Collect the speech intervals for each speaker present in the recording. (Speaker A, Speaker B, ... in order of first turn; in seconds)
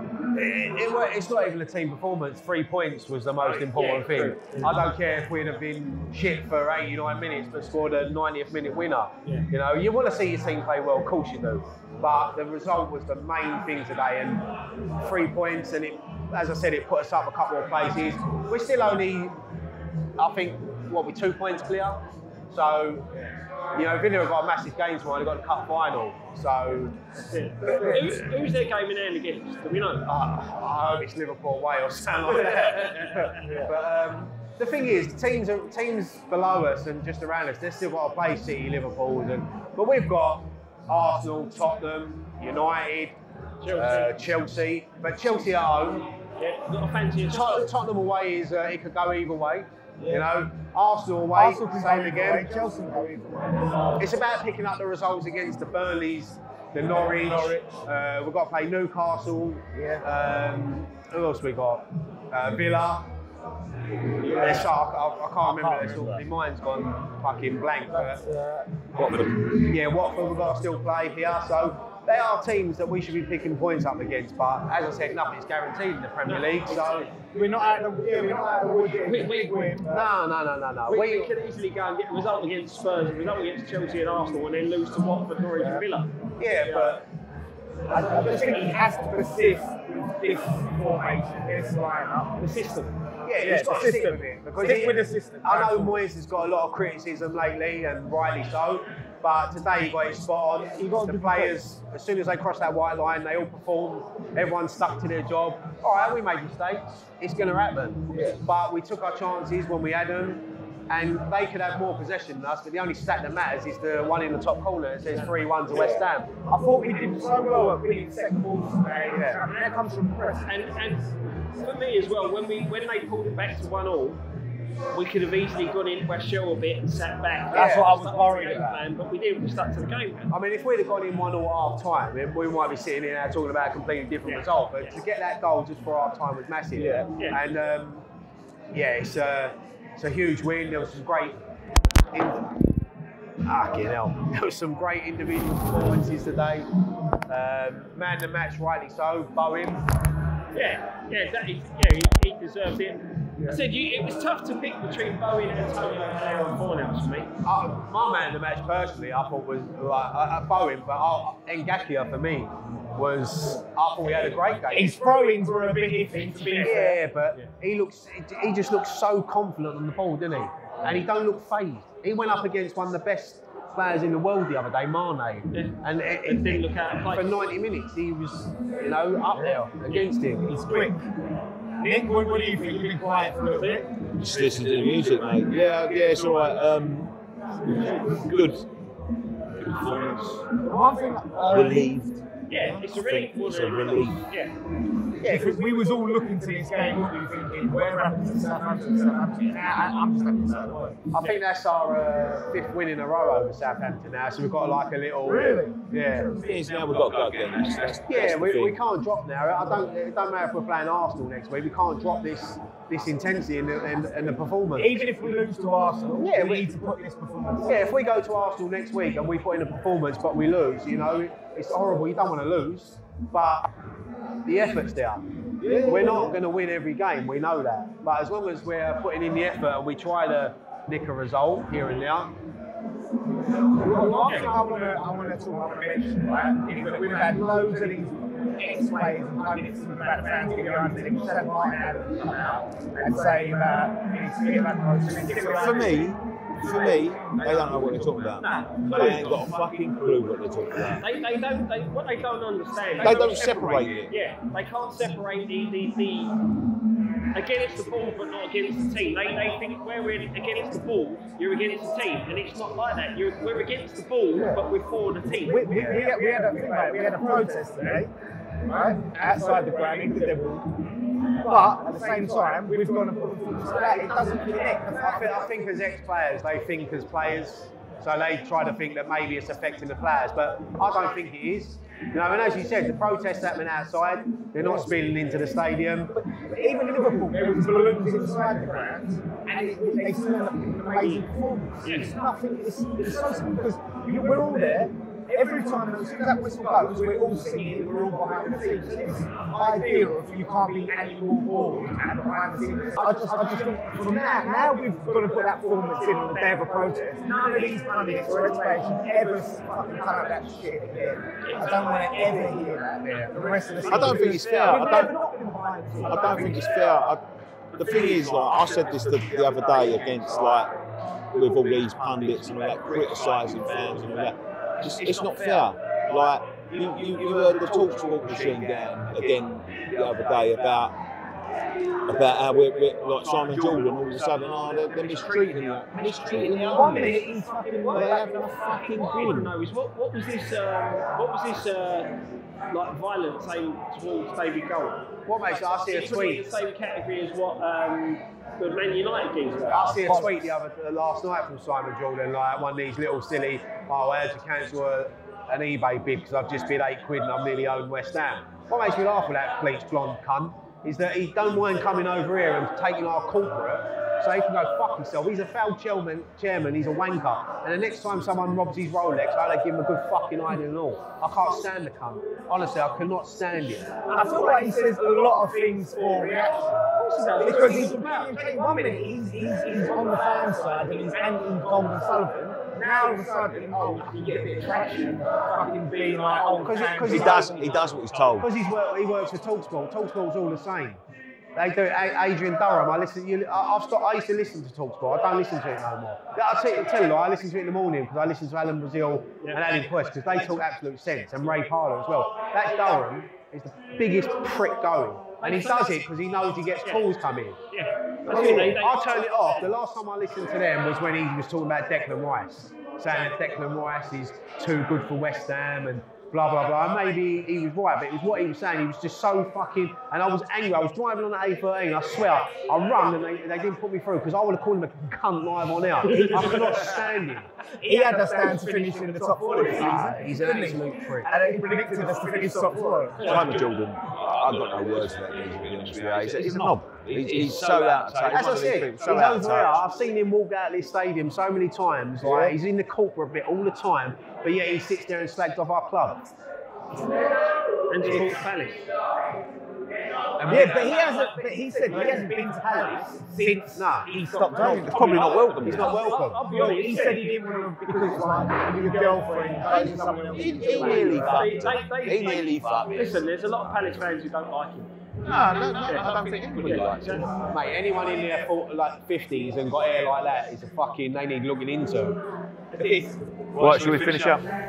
Speaker A: 0.3-14.4, 15.0-19.4, 20.2-23.1, 23.7-28.2, 30.1-43.2, 43.7-46.1, 47.2-52.6, 54.0-63.1, 64.3-68.2, 69.1-77.1, 79.8-81.3, 86.4-87.0, 93.2-116.3, 119.1-119.4, 127.5-128.0, 130.3-138.1, 138.7-141.4, 142.1-142.5, 143.4-146.7, 147.3-149.8, 157.4-165.0, 166.6-180.6, 201.1-206.3, 208.1-215.0, 216.2-216.7, 217.6-223.7, 224.4-225.2, 225.8-232.3, 265.7-266.1, 274.9-286.1, 313.0-313.3, 345.2-346.4, 349.7-373.9, 386.6-387.5, 388.4-391.0, 391.5-407.6, 408.3-427.5, 429.8-431.3, 438.3-446.2, 448.0-448.3, 453.7-454.1, 455.6-456.5, 467.4-472.2
Speaker B: 3.4-4.8, 27.3-30.1, 43.6-44.1, 46.4-47.7, 76.2-77.2, 79.0-79.7, 80.8-86.1, 92.4-92.9, 93.4-94.1, 119.5-119.7, 120.4-124.2, 124.9-130.3, 134.2-135.0, 137.1-137.4, 150.5-157.3, 166.6-166.9, 175.5-177.4, 181.8-182.1, 183.6-183.8, 192.5-194.5, 233.8-234.6, 247.4-249.4, 251.0-256.3, 257.3-265.9, 291.0-291.2, 291.8-292.1, 311.4-312.1, 313.1-315.1, 336.7-337.0, 337.8-338.2, 339.0-342.1, 342.7-350.2, 374.1-375.4, 375.9-378.6, 380.2-381.4, 383.9-385.1, 386.5-387.4, 405.4-406.0, 407.7-409.7, 427.8-430.1, 433.4-433.6, 447.9-448.8, 450.4-451.2, 451.7-452.6, 455.7-457.6, 458.3-459.9, 460.6-467.3
Speaker C: 50.0-50.3, 51.3-54.1, 57.0-57.8, 59.7-60.0, 64.2-64.7, 65.4-66.2, 67.9-68.7, 77.3-80.1, 85.6-85.8, 86.7-87.0, 87.9-92.4, 93.4-96.0, 100.7-101.6, 108.1-108.4, 115.7-120.9, 127.5-128.8, 136.7-137.1, 164.7-167.0, 180.4-181.1, 181.8-183.9, 190.6-192.1, 195.2-201.1, 205.2-206.4, 214.8-217.9, 225.6-226.3, 233.8-246.1, 264.4-264.6, 265.4-268.1, 268.7-270.7, 271.4-275.5, 284.6-285.0, 286.1-316.6, 336.6-339.4, 350.0-350.3, 374.1-376.8, 377.4-387.9, 426.0-427.0, 427.8-433.6, 450.4-455.4, 456.4-461.7
Speaker D: 69.0-69.3, 184.2-187.1, 187.6-188.7, 189.6-190.4, 191.5-194.2, 206.4-208.8, 245.3-251.1, 253.0-254.1, 313.8-315.1, 316.0-317.2, 317.8-320.7, 321.3-330.9, 332.1-337.2, 337.9-339.5, 387.0-388.5, 433.2-439.8, 454.5-456.1, 459.6-463.2, 465.2-467.3, 473.6-474.5